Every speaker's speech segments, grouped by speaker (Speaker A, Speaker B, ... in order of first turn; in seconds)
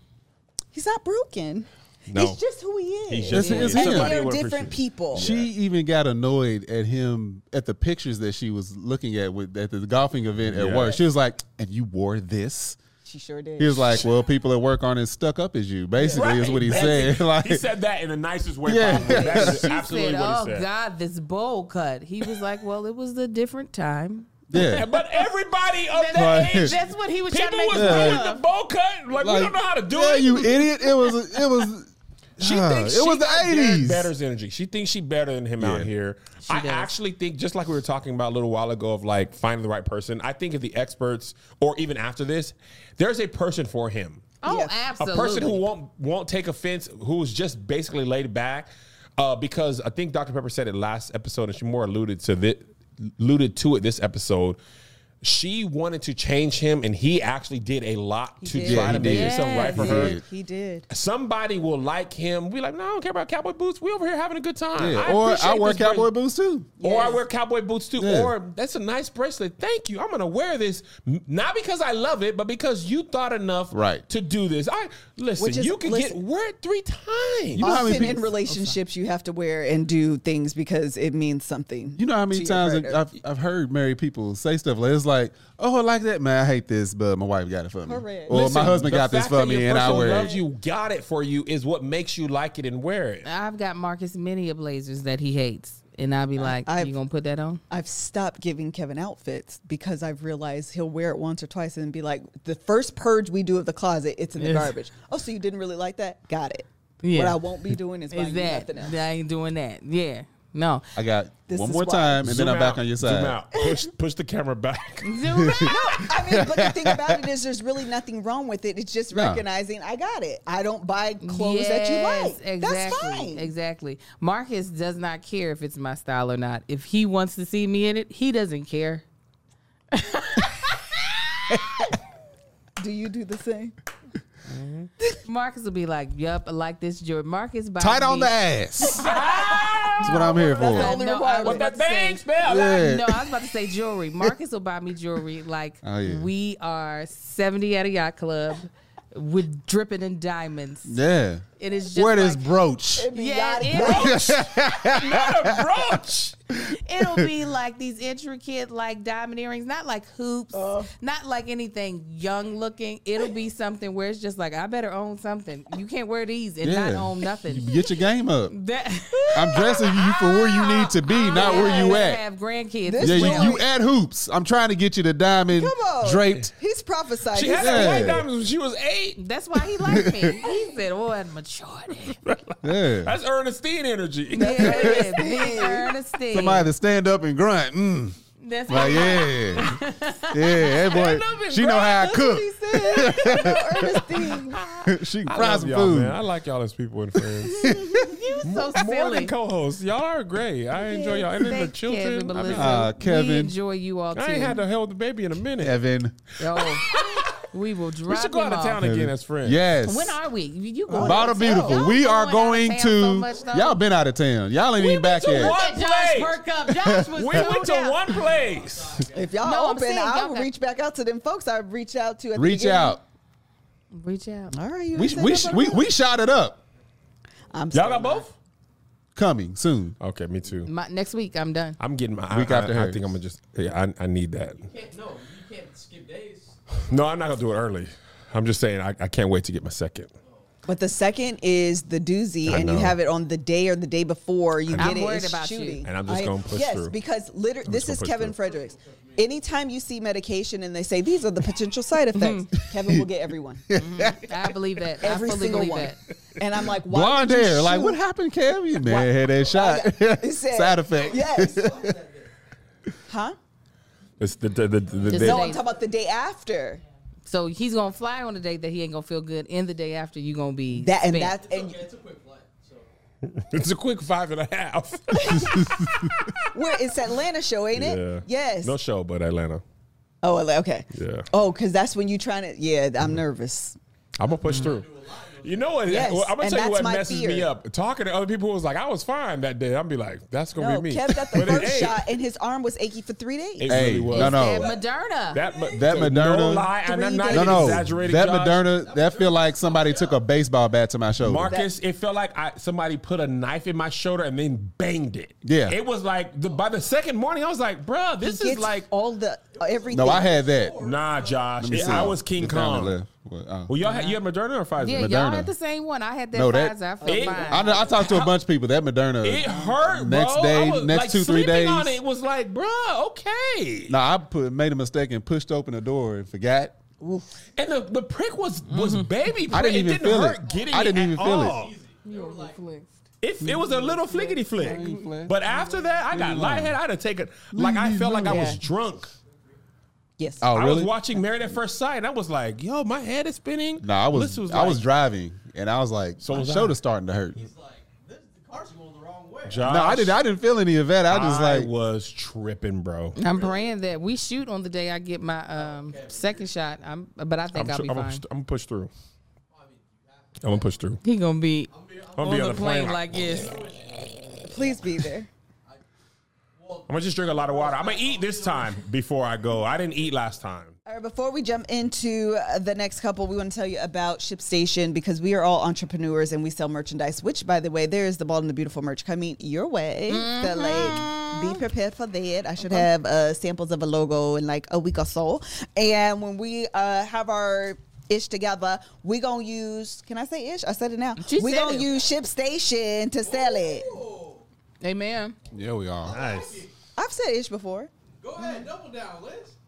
Speaker A: 0.7-5.2, 13.1-14.0, 16.0-16.9, 18.9-19.5, 44.5-44.7, 58.4-60.9, 66.8-67.2, 75.4-76.2, 77.6-83.0, 87.9-88.4, 89.8-90.4, 96.4-96.9, 97.7-109.0, 111.5-112.3, 115.6-123.5, 132.8-133.7, 139.1-141.7, 153.0-154.3, 160.5-160.9, 171.3-172.1, 172.8-173.7, 175.5-178.2, 184.4-185.9, 191.8-194.6, 210.9-211.8, 219.1-223.0, 224.5-225.9, 227.5-228.3, 240.7-253.7, 255.0-258.0, 258.8-261.6, 263.1-263.4, 265.1-266.8, 270.7-271.8, 275.1-275.6, 276.5-278.8, 280.2-283.8, 285.9-287.5, 290.6-293.8, 296.8-297.9, 301.4-301.7, 308.2-310.3, 317.0-317.9, 338.2-338.6, 340.2-340.5, 364.4-365.3, 370.9-394.0, 397.0-397.9
Speaker B: 2.1-2.4, 3.1-5.5, 10.5-11.0, 16.1-20.7, 24.5-30.7, 32.4-44.3, 45.0-54.6, 55.2-60.2, 60.9-66.1, 66.8-77.7, 88.3-93.3, 112.2-115.2, 138.9-140.3, 141.4-142.8, 154.1-156.4, 177.3-179.2, 182.2-185.0, 190.8-192.0, 194.3-197.7, 198.4-202.9, 204.1-205.8, 206.5-207.5, 208.1-209.6, 214.8-216.4, 217.2-219.0, 227.7-228.3, 230.0-230.7, 231.8-234.7, 236.9-240.1, 242.5-243.0, 244.7-245.0, 245.8-246.9, 247.7-248.3, 264.2-265.5, 273.2-276.4, 277.7-279.6, 280.9-281.3, 284.2-284.9, 285.4-292.0, 293.6-294.7, 295.3-298.6, 301.2-308.9, 310.8-313.0, 313.7-315.1, 317.0-318.3, 319.2-324.0, 327.6-331.7, 333.2-339.1, 340.5-344.8, 346.2-346.8, 349.5-350.2, 351.1-353.2, 357.5-358.9, 360.4-361.0, 362.2-363.3, 366.9-370.8, 396.1-396.6
Speaker C: 3.3-4.2, 5.2-12.8, 13.6-17.6, 18.6-19.7, 24.5-24.9, 26.1-26.8, 27.7-28.3, 29.2-34.1, 35.6-35.9, 58.6-60.2, 64.8-66.7, 68.0-68.3, 73.7-74.0, 77.6-78.3, 82.0-90.3, 111.0-113.4, 115.3-117.2, 119.1-119.4, 137.8-139.1, 140.0-141.0, 142.4-143.4, 145.8-146.3, 150.8-153.1, 153.7-155.8, 157.0-157.3, 166.6-168.5, 169.3-172.2, 173.0-176.5, 177.5-178.3, 179.8-180.4, 182.6-183.1, 184.7-185.1, 186.3-189.8, 190.3-194.0, 194.8-196.2, 197.2-198.2, 202.4-203.6, 205.6-206.2, 208.8-210.2, 210.9-215.6, 216.7-217.5, 222.3-223.0, 224.9-226.6, 229.2-229.9, 232.3-233.1, 252.7-253.1, 253.7-254.5, 256.7-262.0, 275.5-275.9, 293.7-294.7, 295.7-296.7, 297.3-301.5, 305.4-305.8, 309.9-310.8, 311.6-313.7, 314.9-315.5, 316.3-316.8, 317.5-322.0, 323.9-326.8, 329.5-331.6, 334.6-335.4, 336.1-336.8, 337.5-338.6, 340.4-340.9, 343.8-347.5, 349.6-351.7, 395.5-396.2
Speaker D: 3.5-3.7, 19.4-25.3, 25.9-28.4, 36.5-36.9, 44.4-45.6, 59.0-60.0, 77.9-78.7, 93.2-97.6, 104.4-104.7, 107.0-107.4, 108.1-110.9, 115.0-116.0, 121.2-129.0, 129.9-131.8, 135.2-138.3, 140.0-151.0, 151.6-152.5, 153.1-154.4, 156.6-167.8, 168.5-173.6, 179.2-182.2, 184.3-186.7, 188.4-191.2, 197.6-199.3, 200.9-204.6, 206.4-208.8, 209.8-213.8, 214.9-218.2, 219.4-220.5, 223.9-224.5, 230.7-231.8, 244.8-245.8, 252.1-252.5, 253.8-256.0, 265.1-265.6, 267.3-271.4, 294.1-295.4, 313.8-314.2, 314.8-317.9, 328.7-329.2, 332.1-332.9, 333.9-335.0, 353.2-358.2, 361.0-363.6, 380.1-381.6, 391.2-391.9, 394.8-395.4
Speaker E: 218.1-219.4, 234.6-237.3, 248.4-249.3, 260.9-262.3, 271.3-272.9, 284.5-286.0, 294.3-294.8, 298.6-300.2, 309.5-311.9, 330.5-332.6, 335.5-336.0, 339.3-339.6, 347.3-349.7, 353.2-353.7, 355.6-356.5, 359.5-360.8, 361.7-364.8, 366.6-368.8, 393.2-394.4, 396.0-396.7, 398.2-399.6